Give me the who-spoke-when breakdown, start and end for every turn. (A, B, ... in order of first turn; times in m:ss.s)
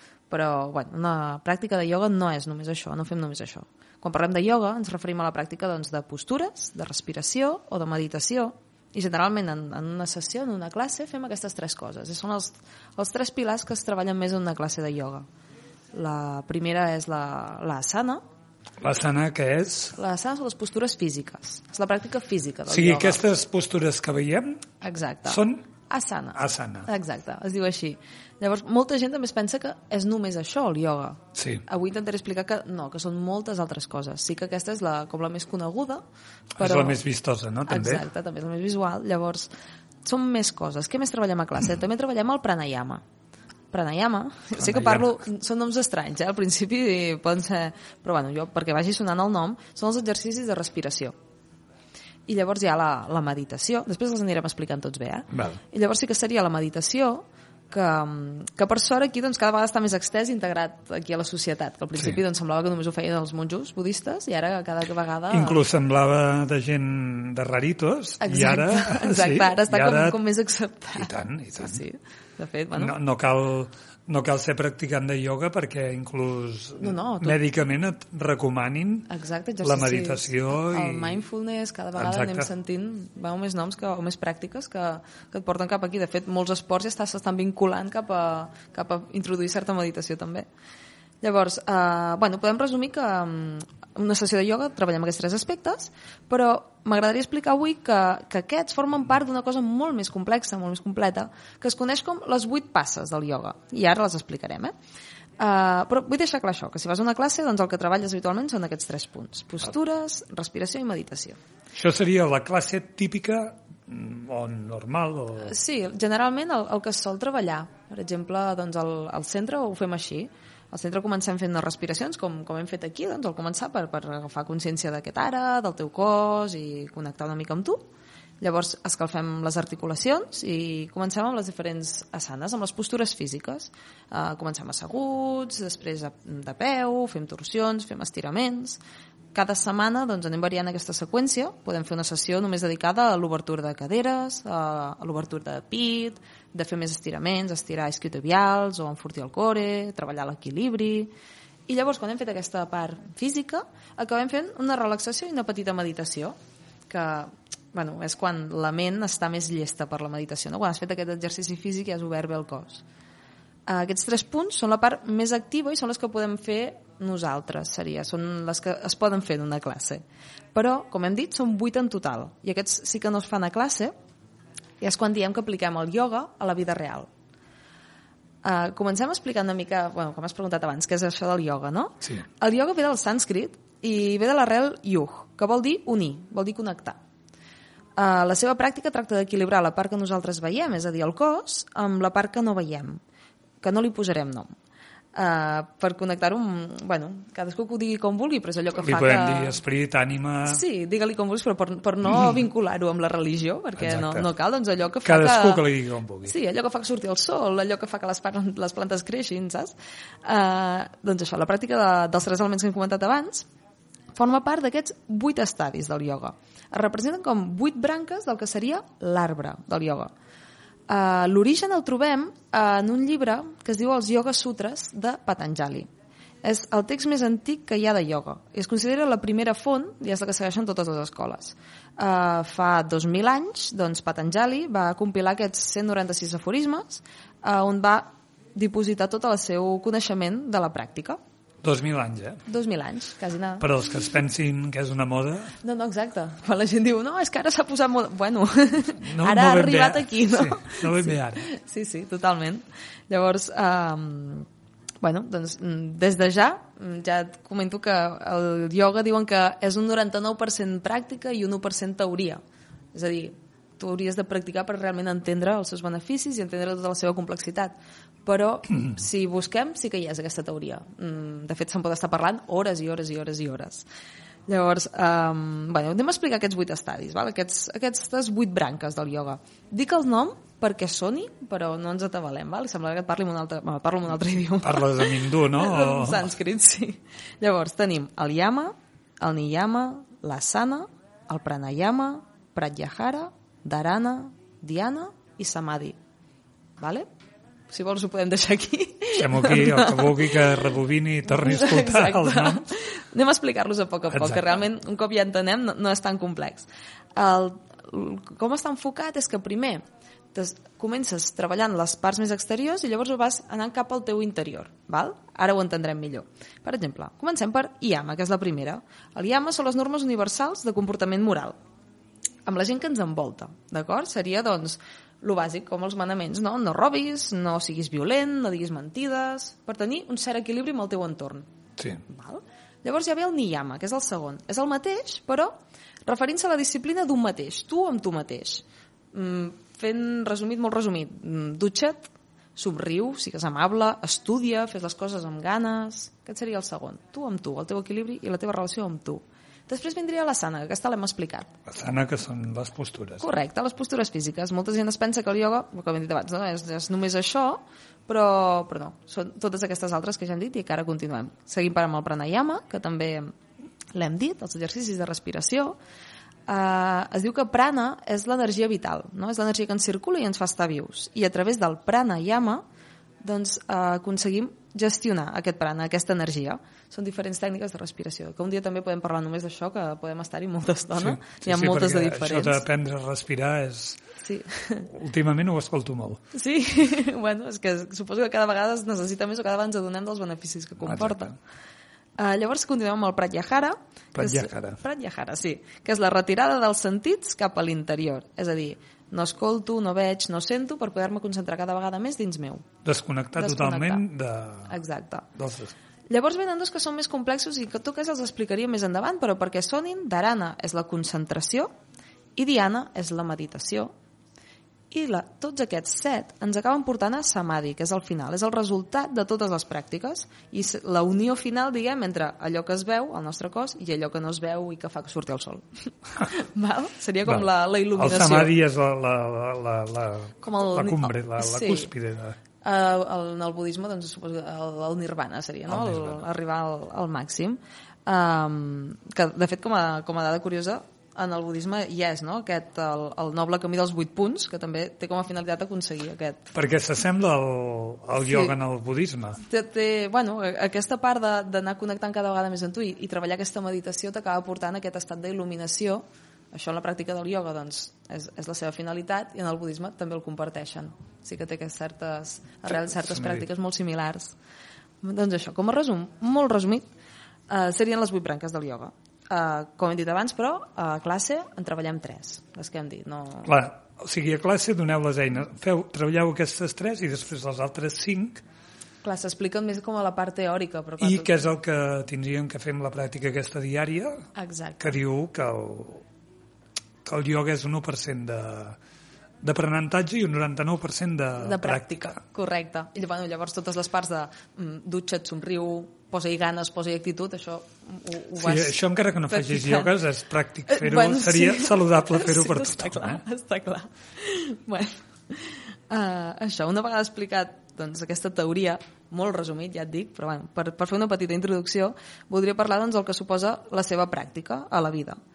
0:00.3-0:15.2 A
0:15.9-0:18.2 A
0:18.8-0:20.0 B
0:20.0-0:23.2 A
0:22.7-0:24.6 B
0:24.8-0:36.0 A
0:25.2-0:25.6 B
0:26.4-0:26.9 B
0:31.3-0:31.6 B
0:36.6-0:38.0 B
0:36.6-0:37.0 A
0:37.7-0:39.5 A
0:40.0-0:43.0 A
0:43.7-0:51.1 A
0:44.6-0:45.1 B
0:52.3-1:05.6 A
0:55.3-0:55.6 B
1:05.3-1:10.2 B
1:08.2-1:12.9 A
1:10.9-1:11.8 B
1:12.8-1:19.1 B
1:16.8-1:17.4 A
1:19.1-1:30.5 A
1:19.6-1:21.2 B
1:22.0-1:22.5 B
1:31.2-1:44.7 A
1:45.4-1:51.4 A
1:51.7-1:55.5 B
1:55.4-2:07.8 A
2:08.4-2:18.8 A
2:19.3-2:31.1 A
2:31.7-2:36.3 A
2:36.9-2:42.8 A
2:43.6-2:50.0 A
2:50.5-2:53.9 A
2:54.8-2:57.1 A
2:58.4-3:07.0 A
3:08.0-3:13.0 A
3:13.6-3:14.5 A
3:15.1-3:19.6 A
3:18.8-3:20.6 B
3:20.4-3:25.6 A
3:23.8-3:24.2 B
3:25.0-3:26.3 B
3:26.2-3:33.5 A
3:34.1-3:40.1 A
3:40.9-3:45.9 A
3:46.4-4:01.2 A
4:01.6-4:02.4 B
4:02.4-4:03.7 A
4:03.6-4:05.5 B
4:05.6-4:14.5 A
4:09.0-4:11.5 B
4:15.0-4:22.4 A
4:22.9-4:33.9 A
4:34.5-4:56.0 A
4:44.6-4:46.3 B
4:56.8-4:57.1 A
4:57.7-5:00.6 A
4:59.1-5:02.7 B
5:01.2-5:09.8 A
5:04.1-5:04.5 B
5:10.3-5:21.6 A
5:22.4-5:31.5 A
5:32.0-5:35.5 A
5:36.0-5:51.5 A
5:51.7-5:53.2 B
5:53.2-6:03.3 A
6:03.9-6:05.8 A
6:06.5-6:12.6 A
6:13.2-6:22.6 A
6:20.9-6:24.0 B
6:24.2-6:24.9 A
6:24.9-6:26.2 B
6:26.3-6:31.4 A
6:30.8-6:31.3 B
6:32.2-6:42.7 A
6:34.1-6:34.8 B
6:42.8-6:44.7 B
6:43.4-6:44.0 A
6:44.7-6:45.3 A
6:45.4-6:45.7 B
6:46.1-6:51.7 A
6:52.4-6:53.9 A
6:54.9-7:08.5 A
7:07.2-7:12.4 B
7:10.4-7:11.9 A
7:12.6-7:26.5 A
7:15.7-7:16.2 B
7:26.5-7:29.4 B
7:28.2-7:28.5 A
7:29.4-7:44.4 A
7:42.8-7:43.4 B
7:45.0-7:46.9 A
7:47.5-7:53.5 A
7:53.4-7:58.4 B
7:59.0-8:01.4 A
8:01.0-8:04.3 B
8:04.3-8:05.0 A
8:04.8-8:06.0 B
8:07.0-8:08.8 B
8:09.4-8:12.2 B
8:11.4-8:19.9 A
8:18.4-8:23.2 B
8:20.7-8:35.2 A